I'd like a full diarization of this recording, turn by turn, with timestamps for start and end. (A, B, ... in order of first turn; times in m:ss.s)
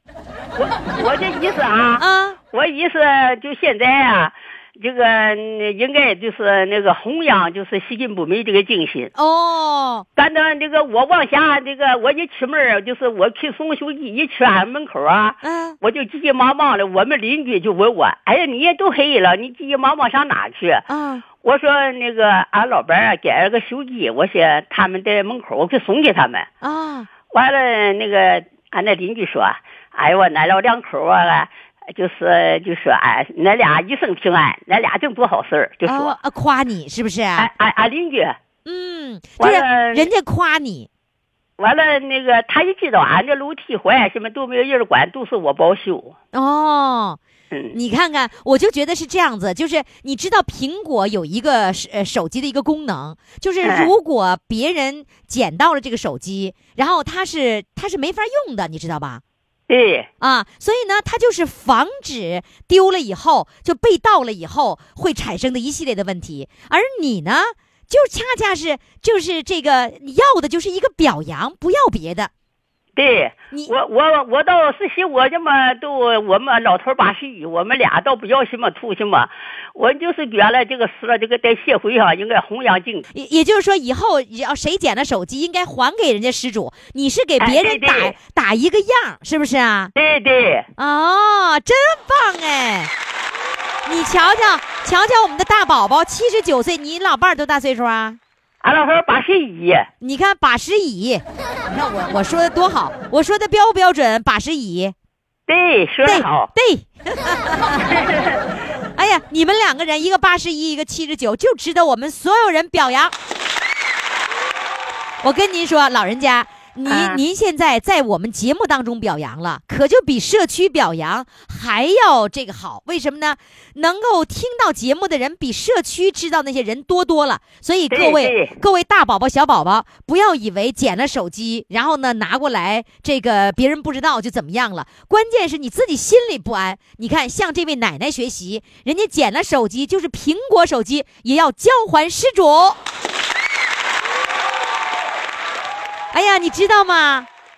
0:00.6-0:09.1 A
0:02.0-0:02.4 B
0:09.2-0:10.1 B
0:10.2-0:20.8 A
0:15.4-0:15.8 B
0:20.9-0:21.2 B
0:21.4-0:26.5 A
0:26.6-0:27.1 B
0:27.3-0:36.2 A
0:35.8-0:37.5 B
0:37.4-0:38.4 A
0:38.7-0:40.9 B
0:39.4-0:40.1 A
0:41.6-0:46.1 A
0:46.3-0:47.2 B
0:47.7-0:59.2 B
0:53.6-0:53.9 A
0:59.7-1:00.1 A
1:00.2-1:12.3 B
1:13.0-1:23.1 A
1:23.1-1:29.9 B
1:27.4-1:28.2 A
1:30.0-1:30.7 A
1:30.8-1:32.9 B
1:33.9-1:38.2 B
1:38.6-1:39.9 A
1:40.0-1:44.9 B
1:45.5-1:46.5 A
1:46.0-1:47.8 B
1:47.8-1:48.4 A
1:49.0-1:53.1 B
1:55.2-2:22.8 B
1:56.9-1:57.2 A
2:07.9-2:08.6 A
2:26.1-2:27.3 B